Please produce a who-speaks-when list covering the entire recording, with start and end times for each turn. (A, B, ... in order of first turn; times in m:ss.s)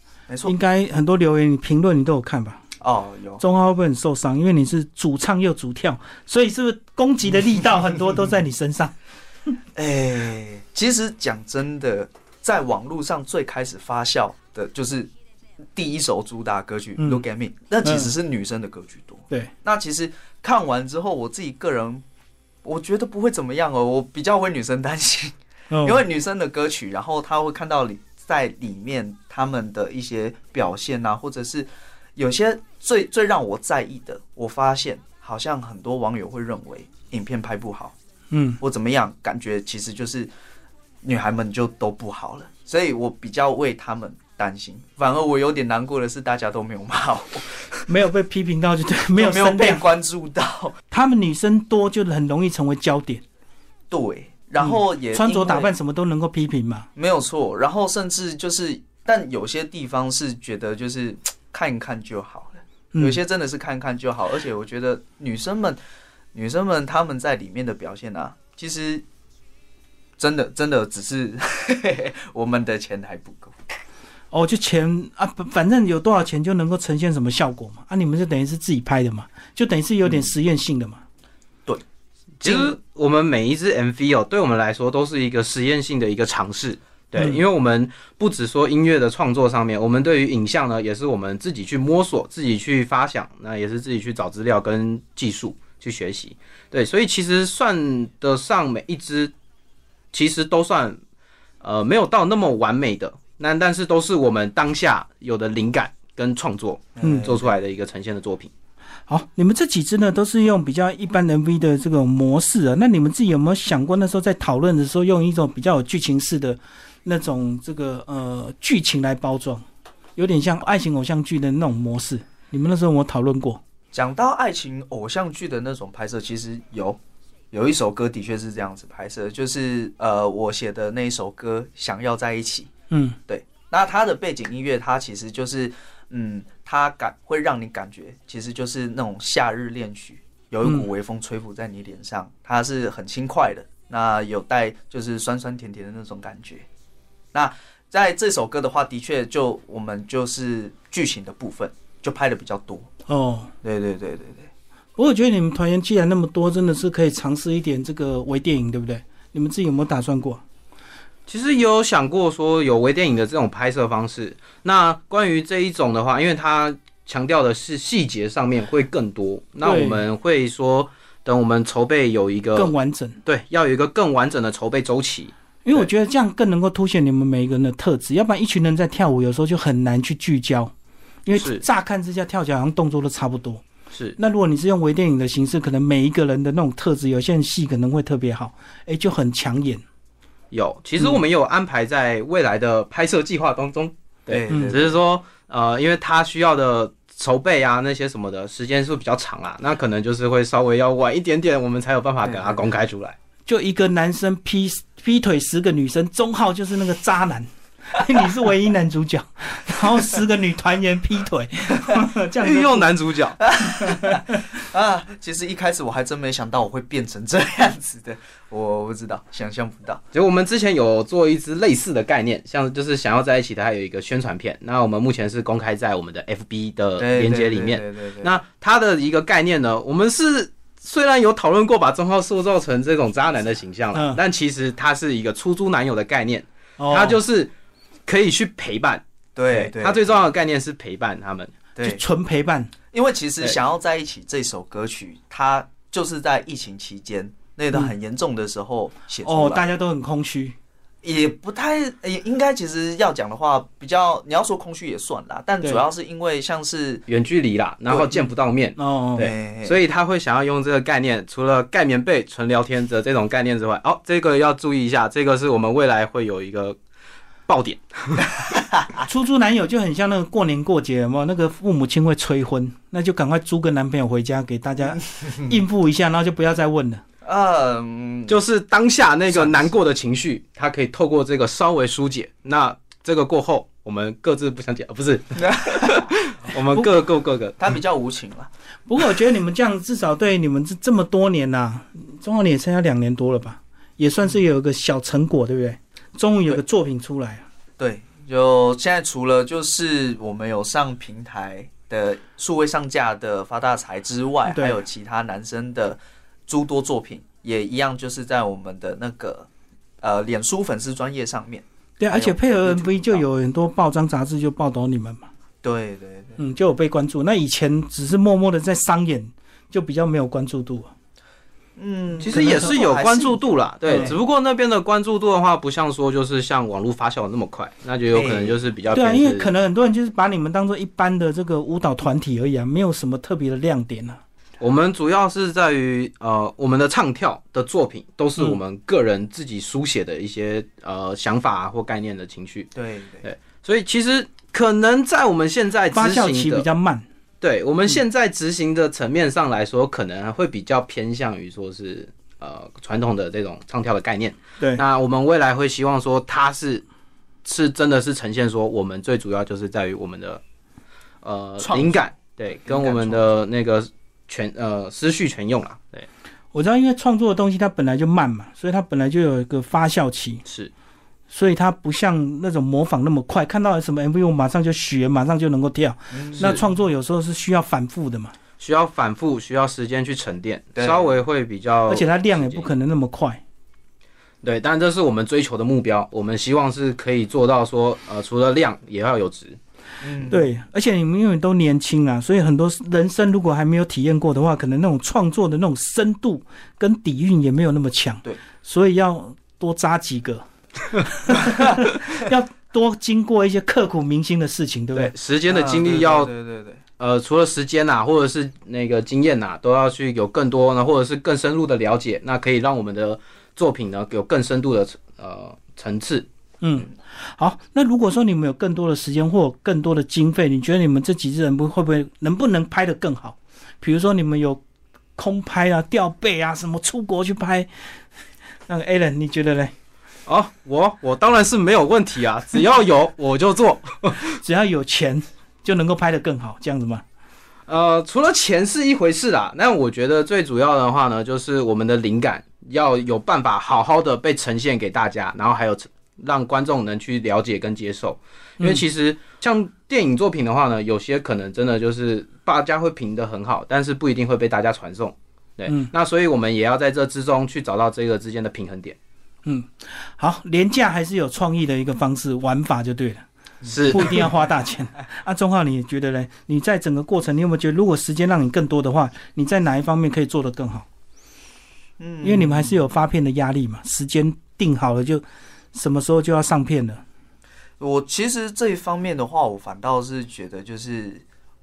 0:00.3-0:00.6 A
0:00.4-0:02.6 B
0:02.8-0:03.4 A
0:03.4-0:08.9 B
0:09.8-0:15.1 A
0:15.7-0:22.0 A
0:17.0-0:17.2 B
0:17.8-0:18.1 B
0:22.6-0:37.9 A
0:25.7-0:26.0 B
0:38.3-0:38.6 B
0:38.6-0:40.3 A
0:41.0-0:47.9 A
0:47.9-0:49.8 B
0:49.1-0:50.7 A
0:50.9-0:53.2 B
0:53.9-0:55.7 A
0:54.6-0:56.9 B
0:57.0-1:05.8 A
1:02.9-1:03.2 B
1:06.3-1:09.0 A
1:10.2-1:13.6 A
1:14.3-1:21.0 B
1:22.4-1:39.3 C
1:22.4-1:22.8 A
1:27.2-1:27.4 B
1:40.1-1:41.0 C
1:41.6-1:48.5 C
1:47.0-1:47.6 A
1:47.0-1:47.4 B
1:49.1-1:59.6 B
2:00.2-2:03.6 B
2:03.9-2:07.0 A
2:07.5-2:12.7 A
2:12.9-2:13.2 B
2:13.3-2:26.7 A
2:27.3-2:32.9 A
2:33.1-2:33.5 B
2:33.6-2:34.5 A
2:35.0-2:40.4 B
2:41.3-2:52.7 C
2:49.6-2:50.0 B
2:52.5-2:53.2 B
2:53.2-2:55.9 C
2:55.6-3:00.7 B
3:01.2-3:03.6 B
3:01.3-3:01.6 C
3:03.9-3:04.2 C
3:04.2-3:09.8 B
3:10.5-3:23.2 C
3:14.3-3:15.0 A
3:14.5-3:14.8 B
3:22.2-3:22.6 A
3:23.4-3:32.9 B
3:32.4-3:33.4 C
3:33.4-3:40.0 A
3:33.7-3:34.2 B
3:40.1-3:57.5 C
3:47.0-3:48.4 A
3:53.9-3:54.2 B
3:56.8-3:57.2 B
3:58.1-4:01.5 C
3:59.4-4:00.3 A
4:01.8-4:02.0 A
4:01.8-4:02.7 B
4:02.9-4:09.7 A
4:09.2-4:10.6 B
4:11.0-4:17.1 A
4:17.1-4:26.8 C
4:17.9-4:18.3 A
4:18.8-4:19.3 B
4:19.2-4:19.8 A
4:27.5-4:28.5 C
4:29.0-4:37.0 B
4:37.2-4:38.4 A
4:38.3-4:47.6 C
4:39.3-4:39.8 A
4:45.4-4:46.0 A
4:47.6-4:48.5 A
4:48.9-4:57.4 B
4:57.8-5:09.5 A
5:04.4-5:04.8 B
5:10.0-5:13.2 A
5:12.0-5:15.3 B
5:15.6-5:16.4 A
5:16.4-5:20.9 B
5:21.8-5:24.1 A
5:22.2-5:22.8 B
5:22.2-5:29.5 C
5:23.8-5:24.2 B
5:28.1-5:28.6 A
5:28.9-5:34.2 B
5:34.6-5:42.7 C
5:42.7-5:43.3 A
5:43.2-5:46.6 C
5:45.9-5:47.0 B
5:47.4-5:56.8 C
5:57.4-6:00.4 C
6:01.2-6:06.1 C
6:01.6-6:03.3 A
6:06.5-6:10.4 B
6:10.4-6:10.7 C
6:11.3-6:18.3 B
6:16.1-6:16.5 A
6:18.6-6:22.7 C
6:20.7-6:21.2 A
6:21.9-6:23.4 B
6:24.4-6:29.6 C
6:30.0-6:30.5 A
6:30.3-6:45.1 B
6:44.9-6:46.3 C
6:45.5-6:46.8 A
6:47.0-6:56.2 C
6:56.6-7:04.6 B
7:05.2-7:07.7 B
7:08.7-7:09.7 B
7:10.2-7:14.4 C
7:14.2-7:17.0 B
7:17.7-7:39.0 C
7:39.4-7:43.2 B
7:43.6-7:44.2 A
7:43.7-7:44.2 C
7:43.9-7:50.8 B
7:52.0-7:52.8 A
7:52.2-7:57.0 B
7:57.8-8:01.2 A